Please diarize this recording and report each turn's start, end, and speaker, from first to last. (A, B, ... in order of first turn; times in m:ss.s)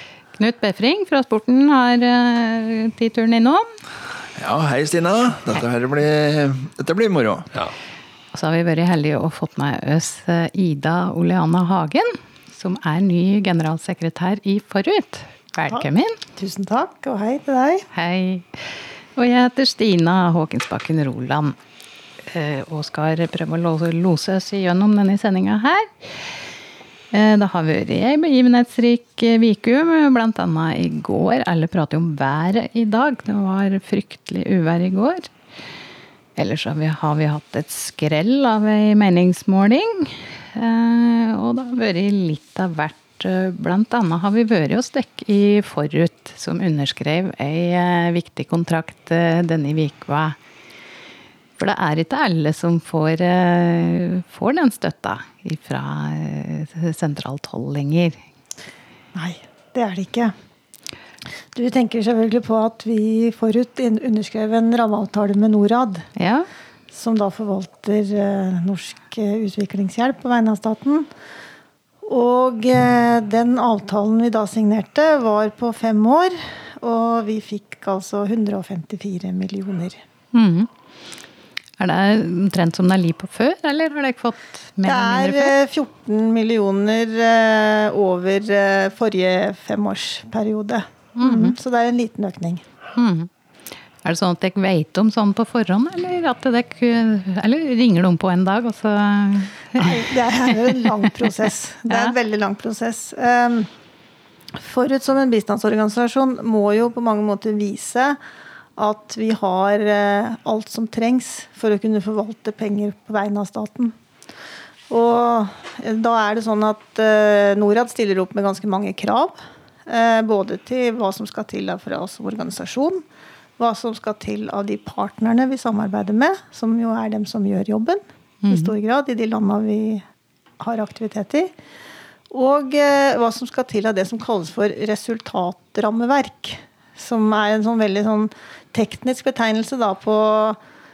0:00.4-0:03.7 A
0:04.4-0:07.5 B
0:08.3-0:16.2 A
0:16.4-0:17.9 C
0:17.9-0:21.6 A
0:22.2-0:26.4 A
0:27.1-0:35.3 A
0:36.4-0:50.4 A
0:51.6-0:58.2 A
0:59.1-1:00.3 C
1:01.5-1:06.0 C
1:06.2-1:06.5 A
1:06.9-1:11.1 C
1:12.0-1:20.0 C
1:20.3-1:20.7 A
1:21.8-1:25.5 A
1:24.8-1:32.6 C
1:31.2-1:31.6 A
1:32.9-1:33.3 A
1:34.0-1:40.9 A
1:39.8-1:43.7 C
1:41.9-1:42.1 A
1:44.6-1:48.2 C
1:48.8-1:53.9 C
1:54.9-2:03.0 C
2:03.6-2:10.0 C
2:08.4-2:08.7 A
2:10.6-2:11.5 C
2:12.3-2:20.6 C